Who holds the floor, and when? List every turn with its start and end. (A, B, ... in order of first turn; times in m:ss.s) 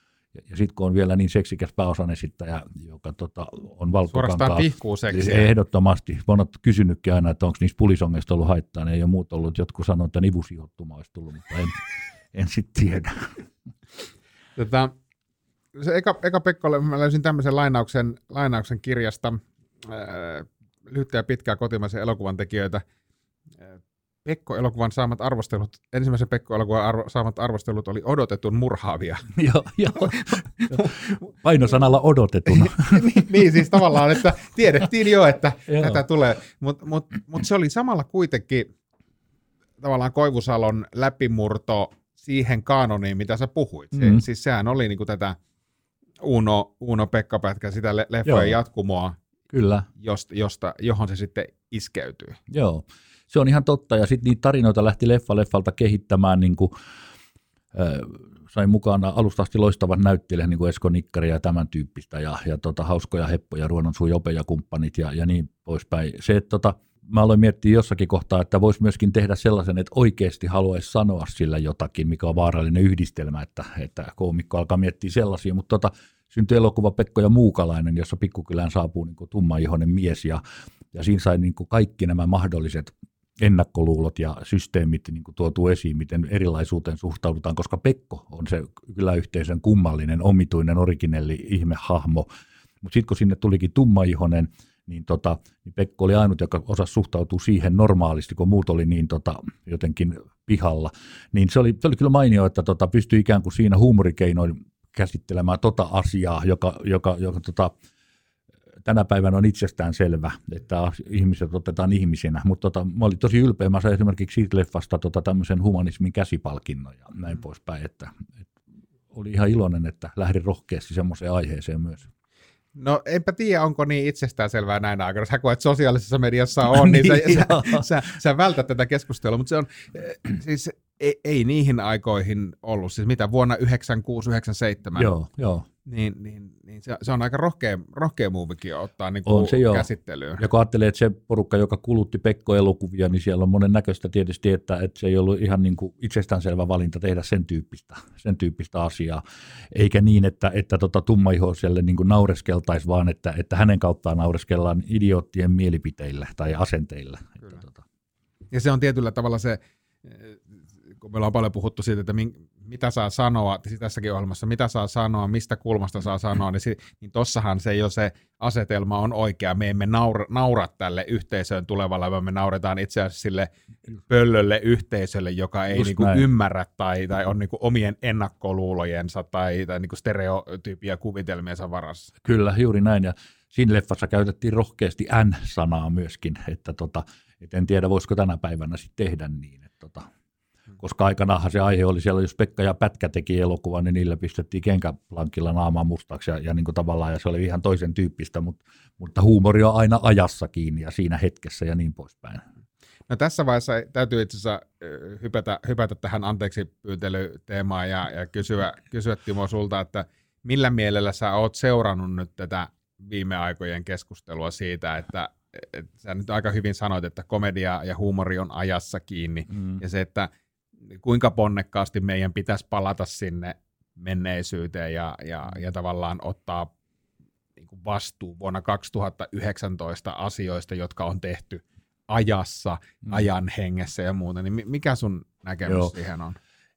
0:00.4-0:11.8 A
0:04.1-0:05.5 B
0:12.3-0:13.3 A
0:14.6-0:14.9 B
0:15.7-0:22.8 B
0:23.6-0:29.3 B
0:29.4-0:33.8 A
0:30.2-0:31.0 B
0:32.6-0:38.7 B
0:35.7-0:36.0 A
0:39.8-0:45.4 B
0:43.9-0:44.2 A
0:46.2-0:49.2 B
0:48.2-0:48.6 A
0:49.5-0:49.9 A
0:50.0-0:52.4 B
0:52.5-0:56.7 A
0:57.7-1:20.4 A
1:20.9-1:32.3 A
1:32.8-1:47.7 A
1:48.8-1:58.2 A
1:59.1-2:02.1 A
2:02.8-2:15.1 B
2:06.7-2:07.8 A
2:15.0-2:15.6 A
2:15.8-2:20.4 B
2:19.2-2:19.9 A
2:20.4-2:37.8 A
2:38.5-2:40.4 B
2:41.0-2:53.5 B
2:54.1-3:02.1 B
2:55.7-2:56.2 A
3:02.2-3:10.1 A
3:10.8-3:22.4 A
3:23.1-3:40.3 B
3:40.9-3:46.7 B
3:47.6-3:56.4 B
3:55.7-3:55.9 A